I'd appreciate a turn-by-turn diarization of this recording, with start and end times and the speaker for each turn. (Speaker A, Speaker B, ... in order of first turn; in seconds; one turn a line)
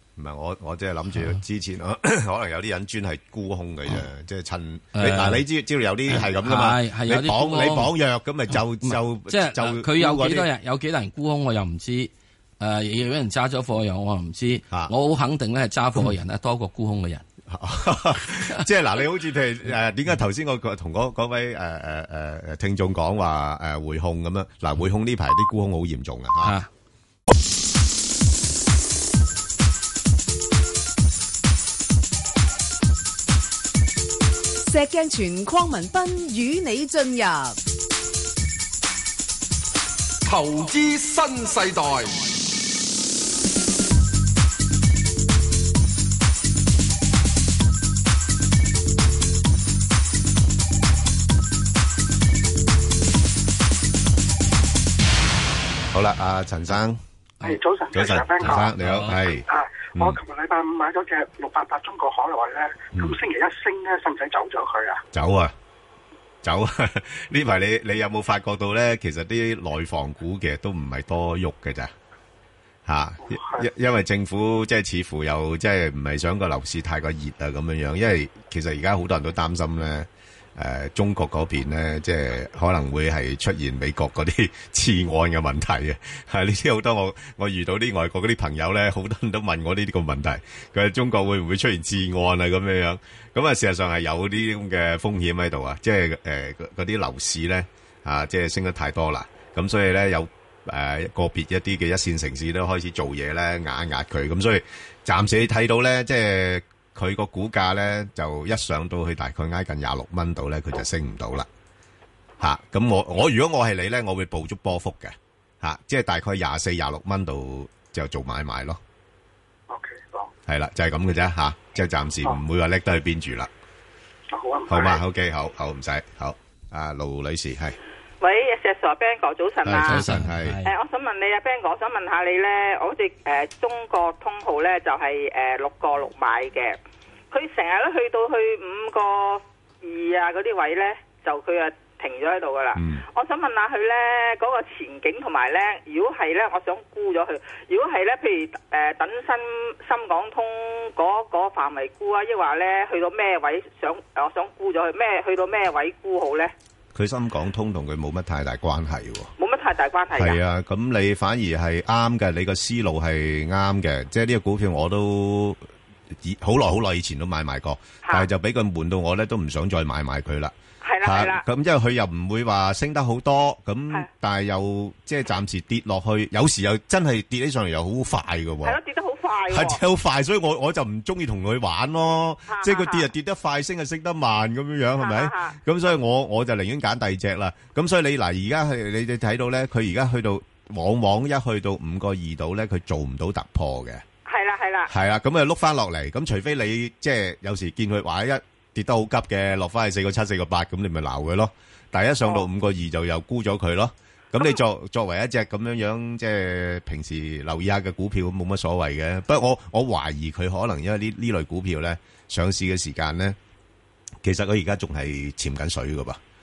Speaker A: 0.2-10.5
Speaker B: 5.0-5.5
Speaker B: 6.1-7.9
Speaker B: 8.8-17.2
Speaker A: 17.5-26.6
Speaker B: 26.4-26.7
Speaker C: 34.7-37.6
Speaker D: 40.3-42.2
Speaker A: 55.9-57.0
Speaker E: 57.4-58.7
Speaker A: 57.9-60.2
Speaker B: 58.4-59.2
Speaker E: 59.5-65.0
Speaker A: 62.9-63.2
Speaker A: 65.1-65.5
Speaker A: 66.4-71.9
Speaker A: 72.9-111.5
Speaker E: 73.2-73.7
Speaker A: 112.4-118.8
Speaker E: 119.7-120.3
Speaker A: 120.5-123.5
Speaker E: 124.3-125.0
Speaker A: 124.7-127.8
Speaker F: 128.2-130.1
Speaker A: 129.6-130.6
Speaker B: 129.8-130.7
Speaker F: 130.6-136.8
Speaker F: 137.3-156.5
Speaker A: 142.8-143.0
Speaker A: 156.9-159.3
Speaker F: 159.4-160.4
Speaker A: 160.2-178.8
Speaker F: 170.8-171.4
Speaker F: 178.6-179.8
Speaker A: 179.5-194.0
Speaker F: 182.5-183.1
Speaker F: 185.0-185.6
Speaker F: 194.3-194.9
Speaker A: 194.9-213.4
Speaker A: 214.2-216.2